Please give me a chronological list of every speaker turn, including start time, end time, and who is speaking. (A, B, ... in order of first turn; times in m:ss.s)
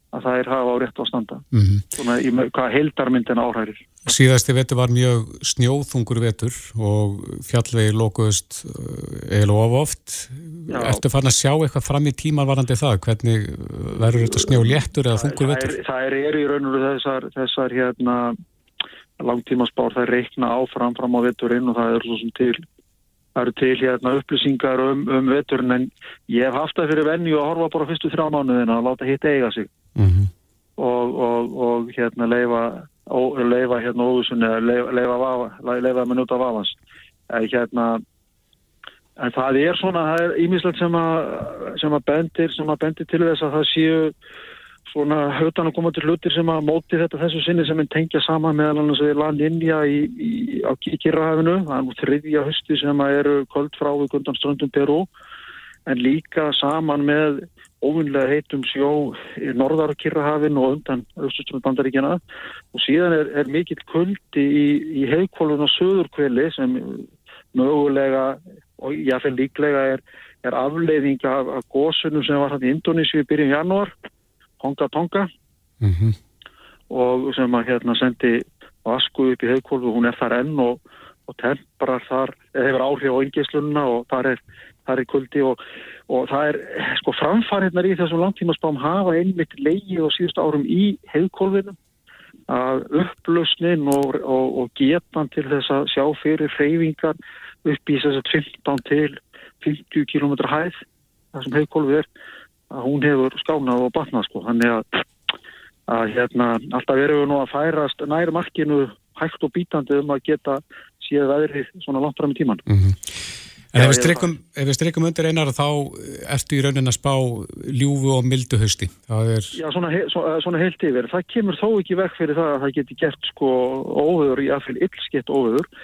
0:00.1-0:01.4 A
0:01.5-0:01.8 B
0:02.0-0:04.0 A
0:04.0-0:15.7 B
0:10.7-0:11.0 A
0:14.2-0:18.4 A
0:19.2-0:22.6 A
0:23.4-0:29.7 A
0:30.0-0:30.3 B
0:30.8-0:36.7 A
0:37.3-0:38.0 A
0:39.2-0:44.1 A
0:44.9-0:55.1 A
0:55.8-1:02.2 A
1:02.7-1:13.9 A
1:14.6-1:15.3 A
1:15.8-1:16.2 B
1:16.9-1:31.8 A
1:32.5-1:40.8 A
1:41.3-1:42.1 A
1:42.7-1:45.0 A
1:45.9-1:52.6 A
1:52.7-1:53.1 B
1:53.7-1:54.3 A
1:53.7-1:59.5 B
1:59.5-2:05.6 A